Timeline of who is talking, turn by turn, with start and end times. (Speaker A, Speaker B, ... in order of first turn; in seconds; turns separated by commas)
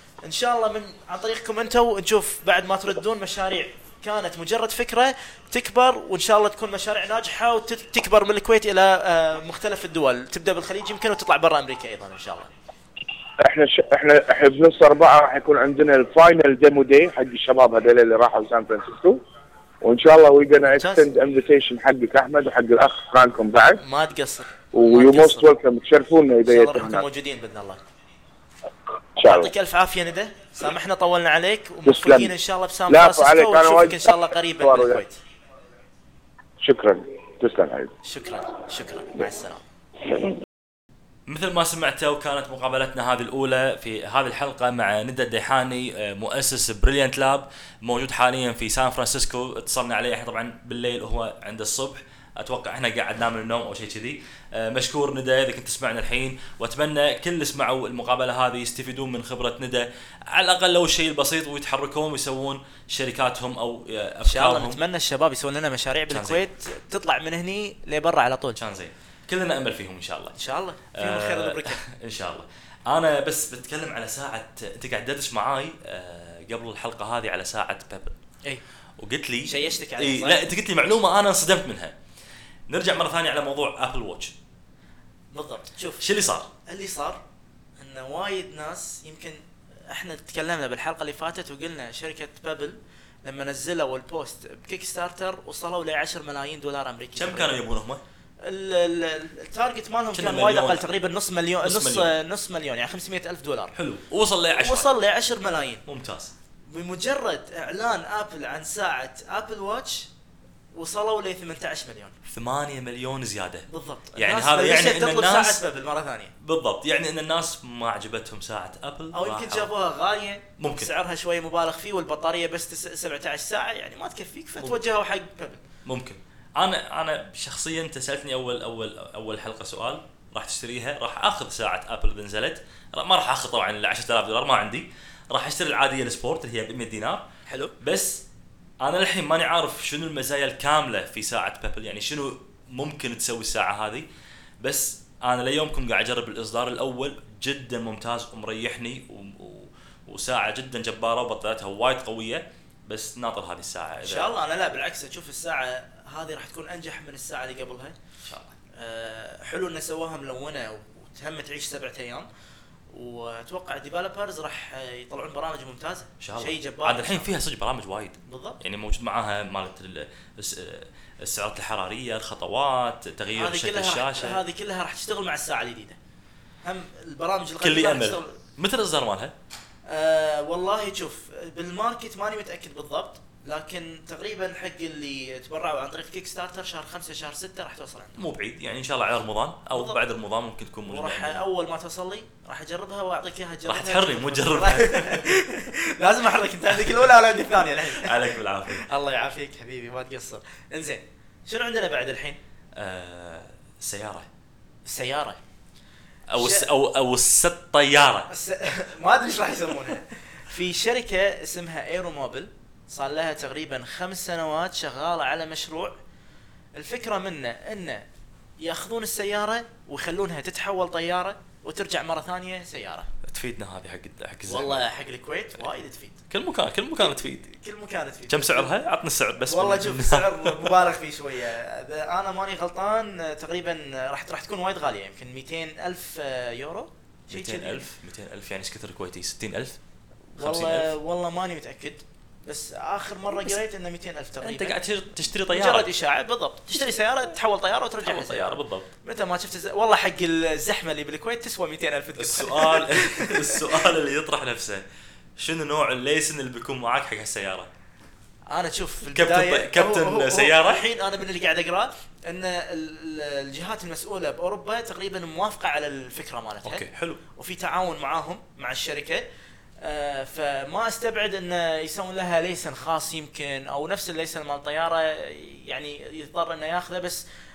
Speaker A: 0.2-12.5, Speaker B: 13.4-19.2, Speaker B: 19.8-23.8, Speaker A: 20.7-21.1, Speaker A: 23.8-25.5, Speaker B: 24.7-27.1, Speaker A: 26.4-27.8, Speaker B: 29.2-29.5, Speaker A: 29.2-35.2, Speaker B: 31.9-32.3, Speaker B: 32.9-35.0, Speaker B: 36.6-37.9, Speaker A: 38.0-39.6, Speaker C: 41.3-64.8, Speaker A: 64.2-68.6, Speaker C: 66.1-66.5, Speaker C: 68.6-70.4, Speaker A: 70.4-71.8, Speaker C: 71.0-78.2, Speaker C: 79.0-82.0, Speaker A: 79.5-80.4, Speaker C: 82.7-84.3, Speaker A: 85.3-86.0, Speaker C: 86.0-86.5, Speaker A: 86.6-87.2, Speaker A: 87.8-97.5, Speaker C: 97.1-98.0, Speaker A: 98.4-103.7, Speaker C: 100.1-100.8, Speaker C: 101.6-102.1, Speaker C: 103.7-104.9, Speaker A: 104.6-105.8, Speaker C: 105.9-106.3, Speaker A: 106.7-110.1, Speaker A: 110.7-112.1, Speaker C: 112.2-115.6, Speaker A: 113.7-116.3, Speaker C: 116.4-119.7, Speaker A: 119.1-125.6, Speaker C: 120.6-120.9, Speaker C: 125.8-137.2, Speaker A: 137.5-137.7, Speaker C: 137.8-138.2, Speaker C: 138.8-144.1, Speaker C: 144.6-154.3, Speaker A: 154.0-157.9, Speaker C: 158.2-158.6, Speaker A: 158.8-162.3, Speaker A: 162.9-167.3, Speaker C: 166.2-174.4, Speaker A: 168.3-168.6, Speaker A: 173.3-176.0, Speaker A: 176.6-178.4, Speaker C: 177.6-179.3, Speaker A: 179.9-188.2, Speaker C: 188.2-191.4, Speaker A: 189.7-190.0, Speaker A: 190.9-202.4, Speaker C: 193.7-195.4, Speaker C: 196.7-198.9, Speaker C: 202.8-204.3, Speaker A: 204.9-205.4, Speaker C: 206.3-208.3, Speaker A: 206.4-206.7, Speaker A: 208.3-215.9, Speaker A: 216.8-218.1, Speaker A: 218.6-223.1, Speaker C: 223.2-224.8, Speaker A: 224.5-226.2, Speaker C: 226.3-227.5, Speaker A: 227.0-228.7, Speaker C: 228.3-230.8, Speaker A: 229.4-237.8, Speaker C: 237.3-239.8, Speaker A: 240.3-244.8, Speaker C: 240.4-240.9, Speaker C: 244.4-245.9, Speaker A: 245.5-253.7, Speaker C: 248.0-248.9, Speaker C: 252.2-254.8, Speaker C: 255.4-257.7, Speaker A: 258.5-269.3, Speaker C: 259.1-260.8, Speaker C: 266.6-267.2, Speaker A: 269.8-277.2